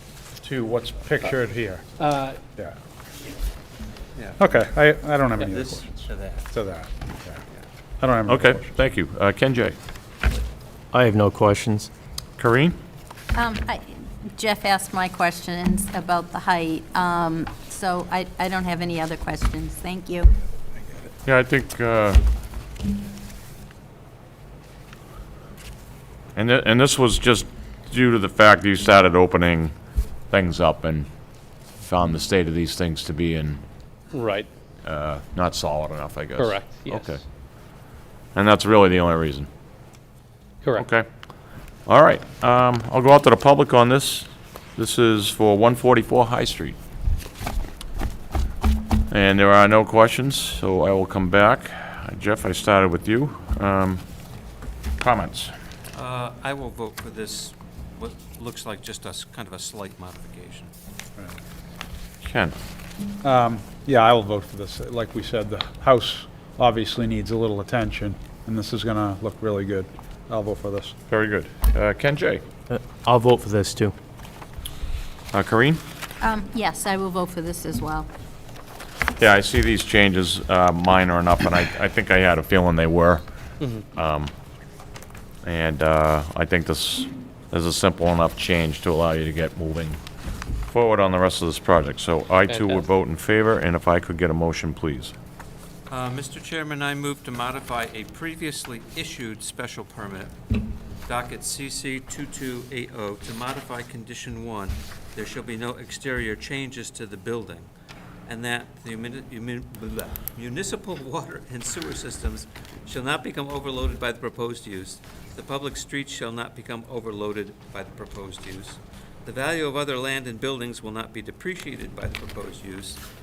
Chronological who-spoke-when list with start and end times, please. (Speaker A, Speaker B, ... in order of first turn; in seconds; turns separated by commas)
Speaker A: 0.4-1.8, Speaker B: 2.0-2.4, Speaker A: 4.4-7.4, Speaker C: 5.4-6.5, Speaker A: 8.0-8.7, Speaker D: 8.3-9.8, Speaker E: 10.9-11.9, Speaker D: 12.4-12.8, Speaker F: 13.3-20.3, Speaker D: 21.2-22.2, Speaker D: 26.4-29.7, Speaker D: 30.3-31.1, Speaker D: 31.8-33.6, Speaker B: 34.1-34.5, Speaker D: 34.8-37.2, Speaker B: 36.4-37.2, Speaker D: 38.3-39.5, Speaker D: 40.8-41.0, Speaker D: 41.9-46.8, Speaker D: 49.1-54.0, Speaker D: 55.0-55.5, Speaker C: 55.9-60.7, Speaker D: 62.2-62.5, Speaker A: 63.2-70.9, Speaker D: 71.1-72.4, Speaker E: 72.9-73.9, Speaker D: 75.3-75.8, Speaker F: 76.2-78.1, Speaker D: 79.2-83.2, Speaker D: 83.9-84.3, Speaker D: 85.4-90.0, Speaker D: 90.7-95.1, Speaker B: 92.5-92.8, Speaker C: 95.9-100.3, Speaker C: 101.0-107.7, Speaker C: 108.3-123.0